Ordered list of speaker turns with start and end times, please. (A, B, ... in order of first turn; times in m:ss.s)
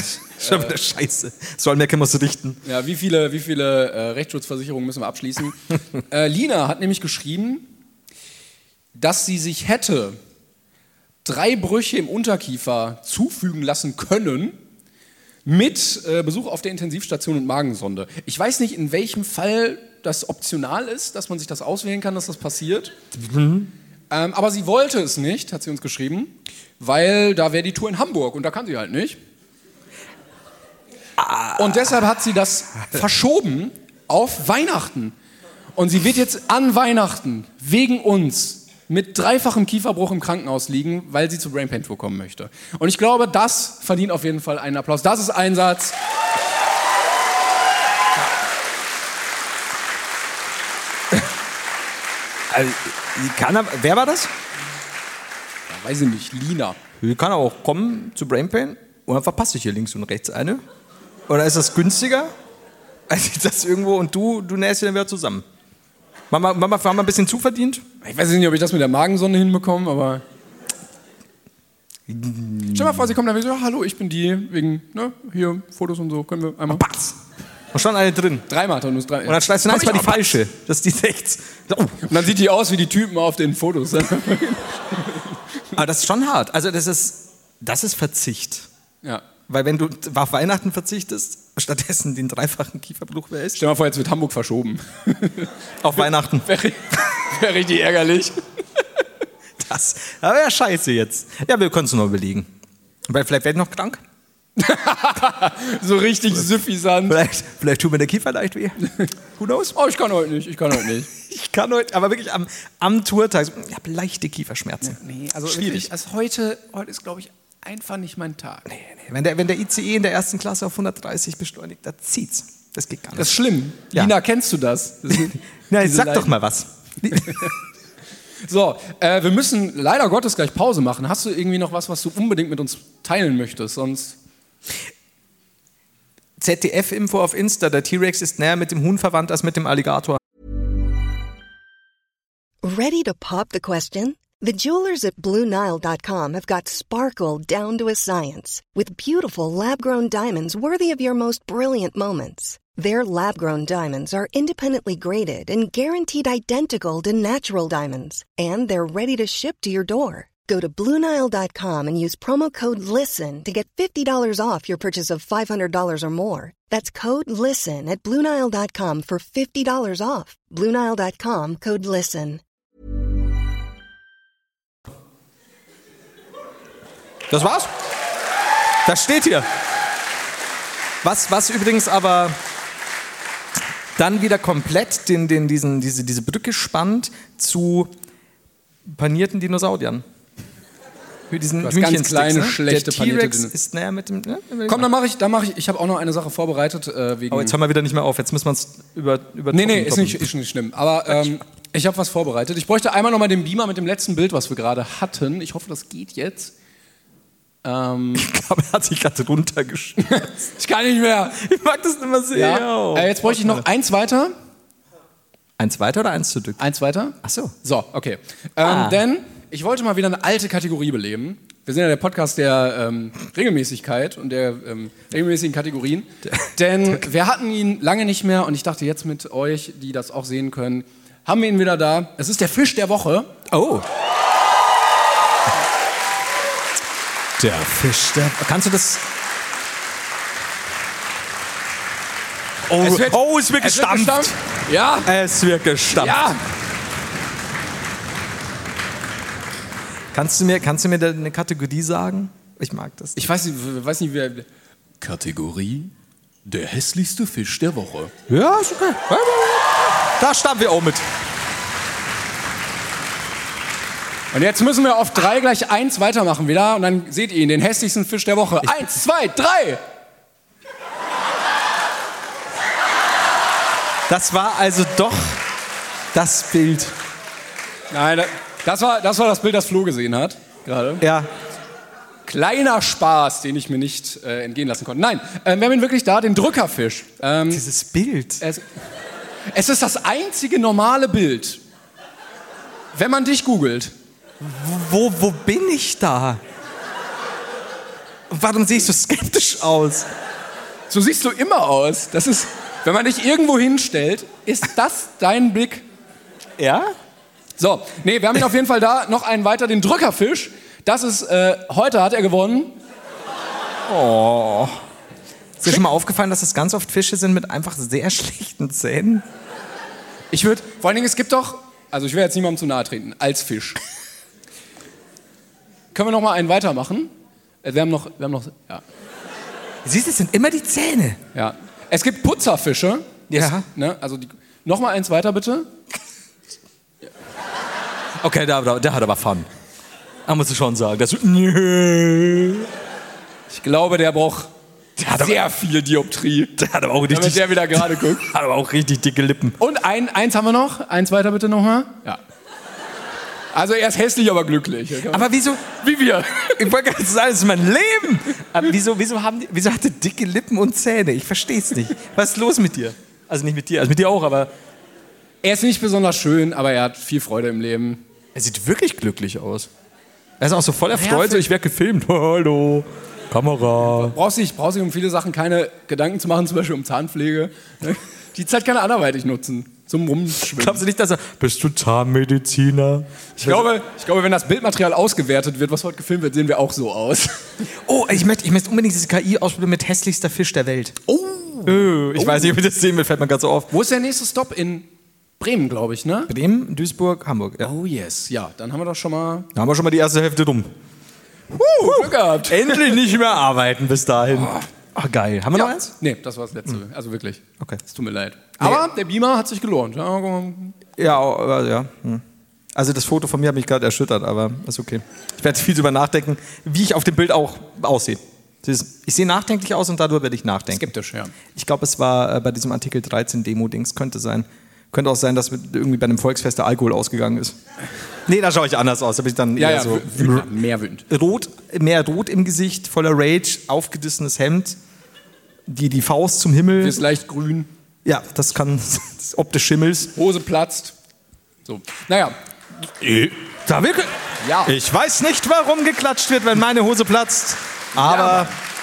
0:00.4-0:02.6 A
0:00.4-0:00.7 B
0:02.6-0:07.7 B
0:08.9-0:10.2 B
0:11.2-0:14.6 B
0:15.4-0:22.9 B
0:23.2-0:23.7 A
0:24.1-0:29.2 B
0:31.2-0:31.9 A
0:31.6-0:35.2 B
0:35.8-0:46.0 B
0:52.5-0:54.3 A
0:55.7-0:56.8 B
0:57.0-1:00.6 A
1:01.3-1:02.3 A
1:03.1-1:05.4 A
1:06.3-1:07.8 A
1:08.0-1:10.2 B
1:12.1-1:13.0 A
1:12.7-1:16.8 B
1:16.7-1:17.2 A
1:17.7-1:18.5 A
1:18.5-1:20.4 B
1:19.2-1:22.0 A
1:22.0-1:25.3 B
1:25.7-1:28.7 A
1:29.5-1:33.6 A
1:33.6-1:35.5 B
1:35.8-1:36.5 A
1:36.4-1:38.4 B
1:39.6-1:42.5 A
1:43.1-1:44.0 A
1:44.6-1:47.2 B
1:47.1-1:49.8 A
1:48.8-1:49.1 B
1:49.8-1:51.1 B
1:51.1-1:55.9 A
1:54.8-1:58.7 B
1:58.7-2:03.4 A
2:03.2-2:06.3 B
2:05.1-2:07.5 A
2:07.1-2:07.5 B
2:08.4-2:14.2 B
2:16.4-2:20.2 A
2:22.6-2:52.4 C
2:57.3-2:57.7 A
2:58.8-2:59.5 A
3:01.0-3:02.4 A
3:04.0-3:07.9 A
3:08.9-3:10.0 A
3:11.3-3:14.9 A
3:11.6-3:13.5 B
3:14.7-3:17.6 B
3:17.3-3:20.3 A
3:19.5-3:26.5 B
3:27.6-3:28.3 B
3:28.2-3:30.3 A
3:30.0-3:31.4 B
3:31.4-3:33.6 A
3:32.3-3:34.3 B
3:35.6-3:36.6 A
3:36.6-3:53.3 B
3:37.2-3:37.5 A
3:38.6-3:39.0 A
3:53.5-3:53.8 A
3:57.4-3:59.1 A
4:02.7-4:04.4 A
4:02.8-4:05.1 B
4:05.0-4:06.2 A
4:05.9-4:06.4 B
4:10.1-4:13.2 A
4:13.2-4:14.5 B
4:15.0-4:15.9 B
4:16.4-4:18.1 B
4:18.3-4:21.0 A
4:24.3-4:29.8 B
4:34.1-4:35.4 A
4:36.1-4:37.0 A
4:37.9-4:41.0 B
4:41.0-4:41.3 A
4:42.3-4:47.6 B
4:47.5-4:48.4 A
4:49.5-4:51.6 B
4:52.9-4:53.9 B
4:54.4-4:56.4 A
4:58.3-5:00.1 A
5:00.9-5:05.9 B
5:06.6-5:06.9 A
5:07.6-5:12.8 B
5:13.9-5:14.8 A
5:15.6-5:19.2 A
5:20.3-5:23.8 B
5:25.9-5:28.8 B
5:29.8-5:31.2 A
5:31.3-5:35.7 B
5:33.3-5:33.7 A
5:38.2-5:39.5 A
5:40.3-5:42.7 A
5:43.5-5:44.5 B
5:45.0-5:45.4 A
5:45.1-5:46.6 B
5:46.6-5:49.6 A
5:47.1-5:48.3 B
5:49.6-5:52.2 B
5:53.5-5:56.7 B
5:55.1-5:55.6 A
5:56.5-6:04.5 A
6:05.4-6:08.0 B
6:08.4-6:09.7 A
6:10.4-6:14.2 A
6:10.9-6:11.5 B
6:13.8-6:20.8 B
6:20.5-6:23.7 A
6:23.4-6:27.4 B
6:27.9-6:31.0 A
6:31.1-6:32.6 B
6:31.6-6:33.7 A
6:33.7-6:34.9 B
6:35.4-6:36.3 B
6:36.3-6:37.7 A
6:37.6-6:39.5 B
6:39.6-6:40.7 A
6:41.5-6:43.0 B
6:41.6-6:45.9 A
6:45.5-6:50.8 B
6:51.0-6:52.2 A
6:52.8-7:00.9 A
7:00.7-7:01.3 B
7:01.5-7:07.6 A
7:08.3-7:10.5 A
7:09.6-7:11.1 B
7:11.1-7:14.8 A
7:15.7-7:17.0 A
7:16.8-7:17.7 B
7:18.0-7:20.1 A
7:20.2-7:21.0 B
7:21.6-7:22.4 B
7:23.0-7:24.1 A
7:24.4-7:24.7 B
7:24.6-7:28.5 A
7:28.0-7:28.5 B